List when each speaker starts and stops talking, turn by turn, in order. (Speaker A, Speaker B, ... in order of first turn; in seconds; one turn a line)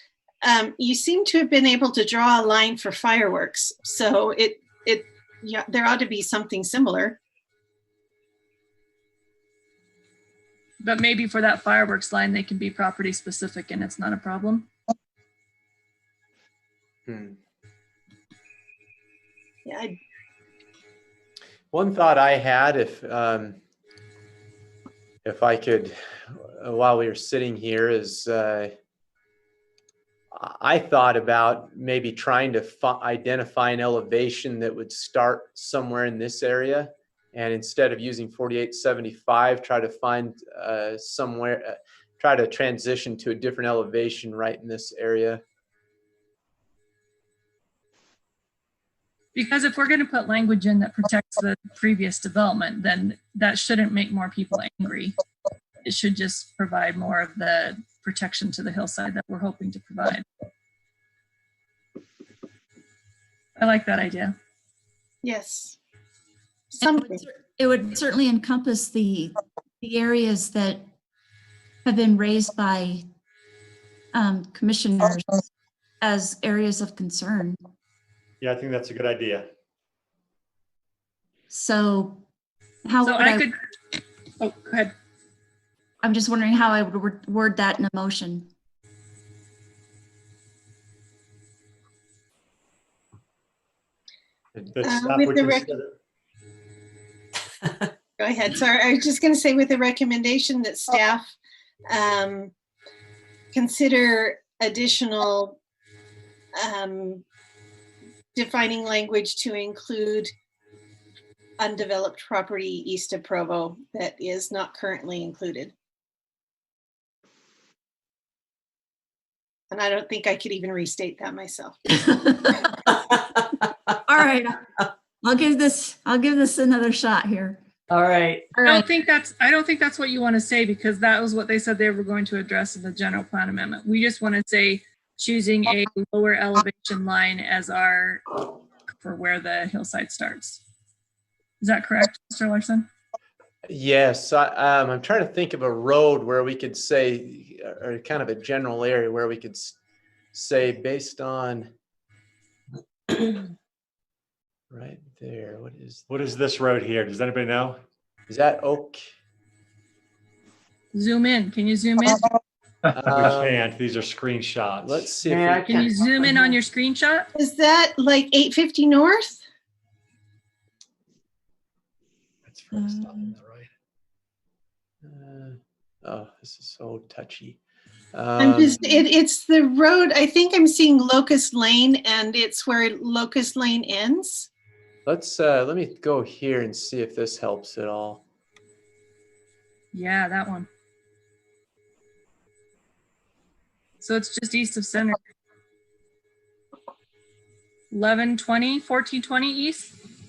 Speaker A: 0.4-7.2
Speaker B: 10.8-14.7
Speaker C: 17.1-17.4
Speaker A: 19.6-19.9
Speaker C: 21.7-23.6
Speaker C: 25.2-28.7
Speaker C: 30.3-45.4
Speaker B: 49.3-55.2
Speaker B: 55.8-60.2
Speaker B: 63.6-64.3
Speaker A: 65.2-65.8
Speaker A: 66.7-67.2
Speaker D: 66.8-70.9
Speaker D: 71.8-73.0
Speaker D: 74.1-75.4
Speaker D: 76.0-77.6
Speaker E: 78.4-79.5
Speaker D: 81.5-82.2
Speaker D: 82.8-83.5
Speaker B: 83.0-83.6
Speaker B: 84.4-84.9
Speaker D: 86.0-88.5
Speaker E: 94.6-95.9
Speaker A: 94.8-95.7
Speaker A: 98.2-101.3
Speaker A: 101.9-102.5
Speaker A: 103.5-105.6
Speaker A: 106.5-107.2
Speaker A: 108.3-110.3
Speaker A: 111.6-115.7
Speaker A: 119.7-121.8
Speaker D: 121.9-122.7
Speaker D: 124.0-127.6
Speaker F: 127.9-128.5
Speaker D: 128.5-128.9
Speaker B: 128.6-140.6
Speaker B: 141.6-142.9
Speaker C: 143.7-149.8
Speaker C: 150.3-151.7
Speaker C: 154.7-156.1
Speaker E: 156.1-157.8
Speaker C: 158.3-159.0
Speaker B: 160.9-162.3
Speaker E: 162.9-165.1
Speaker C: 162.9-163.6
Speaker C: 164.8-165.9
Speaker F: 165.2-166.5
Speaker B: 165.7-167.3
Speaker A: 167.3-169.4
Speaker E: 172.5-173.7
Speaker D: 172.7-173.3
Speaker C: 175.0-177.6
Speaker C: 178.1-178.8
Speaker A: 178.4-184.5
Speaker D: 178.7-179.1
Speaker C: 185.1-188.2
Speaker B: 189.9-190.7
Speaker B: 194.0-195.2
Speaker B: 197.9-200.0